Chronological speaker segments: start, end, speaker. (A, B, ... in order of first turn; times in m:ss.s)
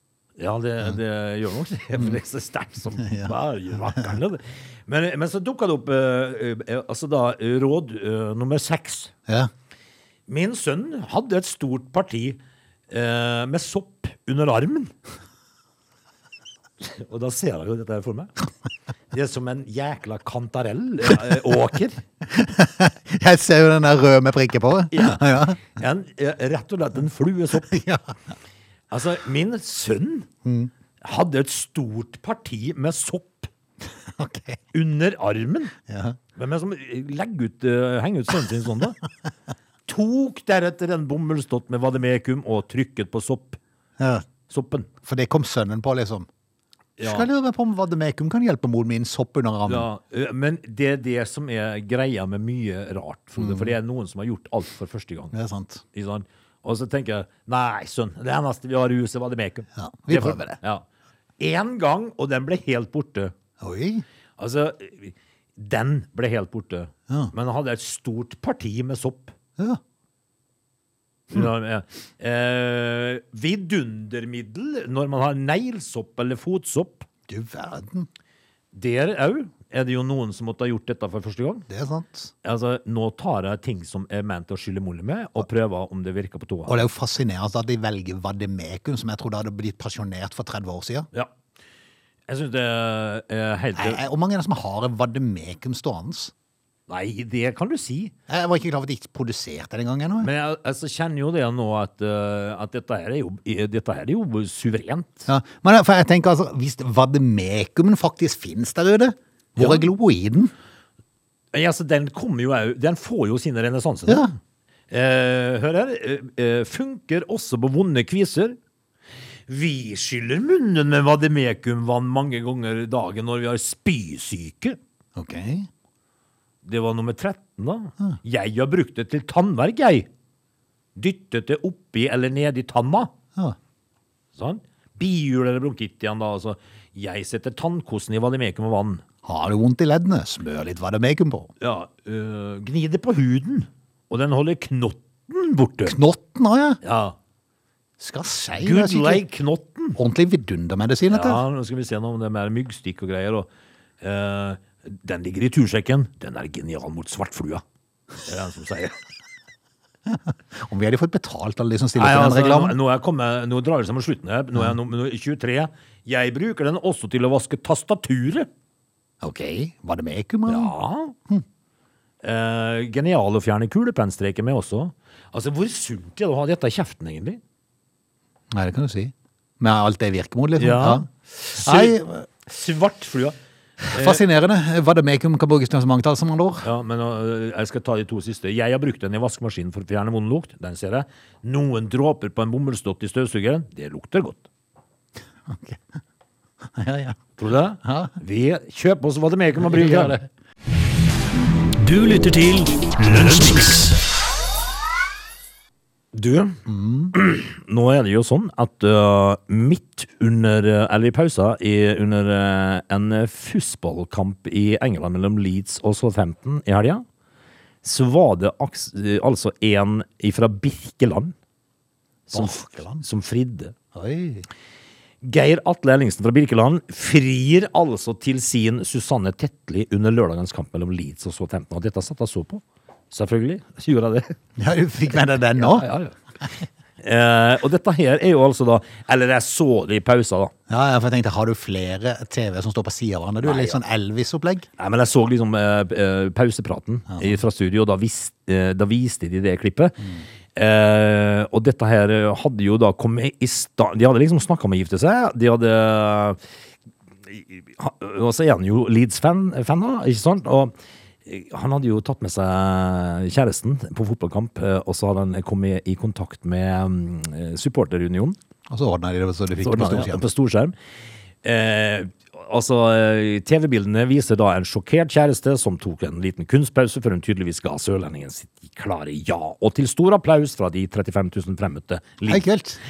0:00.4-0:09.1 A
0:03.0-0:03.3 B
0:10.3-0:14.9 A
0:16.8-0:18.3 A
0:19.1-0:22.0 A
0:22.3-0:25.6 B
0:24.9-0:27.7 A
0:27.6-0:28.1 B
0:28.9-0:30.3 A
0:30.4-0:30.7 B
0:31.0-0:33.5 A
0:34.2-0:34.6 B
0:34.7-0:35.8 A
0:35.9-0:36.2 B
0:36.4-0:39.0 A
0:39.9-0:43.6 A
0:44.5-0:44.9 A
0:45.0-0:46.3 B
0:47.0-0:47.3 A
0:47.0-0:49.9 B
0:49.7-0:55.4 A
0:53.4-0:53.7 B
0:55.3-0:55.8 B
0:55.9-1:00.8 A
0:59.8-1:00.6 B
1:01.4-1:03.3 A
1:03.6-1:04.0 B
1:04.4-1:09.3 A
1:11.3-1:17.1 A
1:17.3-1:18.1 B
1:18.7-1:21.7 A
1:21.7-1:22.3 B
1:22.4-1:26.8 A
1:26.7-1:31.1 B
1:32.3-1:34.0 A
1:33.8-1:36.3 B
1:36.9-1:38.1 A
1:38.3-1:40.3 B
1:40.2-1:45.3 A
1:45.3-1:50.5 B
1:49.6-1:49.9 A
1:51.5-1:54.2 A
1:54.1-1:54.3 B
1:54.9-1:58.6 A
1:59.5-2:04.8 A
2:05.2-2:05.7 B
2:06.6-2:10.1 A
2:11.0-2:13.1 A
2:14.4-2:19.0 A
2:19.2-2:21.5 B
2:21.6-2:26.0 A
2:25.9-2:26.8 B
2:26.8-2:27.2 A
2:28.0-2:29.2 B
2:28.6-2:30.0 A
2:30.0-2:31.4 B
2:31.1-2:33.5 A
2:34.0-2:37.6 A
2:38.2-2:39.0 A
2:40.1-2:42.8 B
2:42.0-2:48.5 A
2:49.2-2:50.7 B
2:50.5-2:51.2 A
2:52.2-2:57.4 A
2:58.5-3:02.3 B
3:00.6-3:03.4 A
3:03.8-3:06.7 B
3:03.9-3:04.2 A
3:06.6-3:14.4 A
3:15.5-3:15.8 B
3:16.8-3:17.2 B
3:17.4-3:20.2 A
3:17.8-3:18.2 B
3:19.7-3:20.2 B
3:21.8-3:24.0 C
3:26.1-3:26.6 A
3:26.7-3:27.2 B
3:27.1-3:37.0 A
3:37.8-3:41.4 A
3:42.3-3:43.8 A
3:42.3-3:43.0 B
3:43.9-3:44.5 B
3:45.2-3:54.4 A
3:54.6-3:55.9 B
3:55.5-3:56.2 A
3:57.0-4:00.5 A
4:00.7-4:04.7 B
4:03.4-4:03.8 A
4:04.8-4:16.4 A
4:07.1-4:07.4 B
4:17.3-4:20.7 A
4:21.2-4:28.4 A
4:28.7-4:30.2 B
4:29.6-4:30.7 A
4:31.4-4:42.5 A
4:42.3-4:42.8 B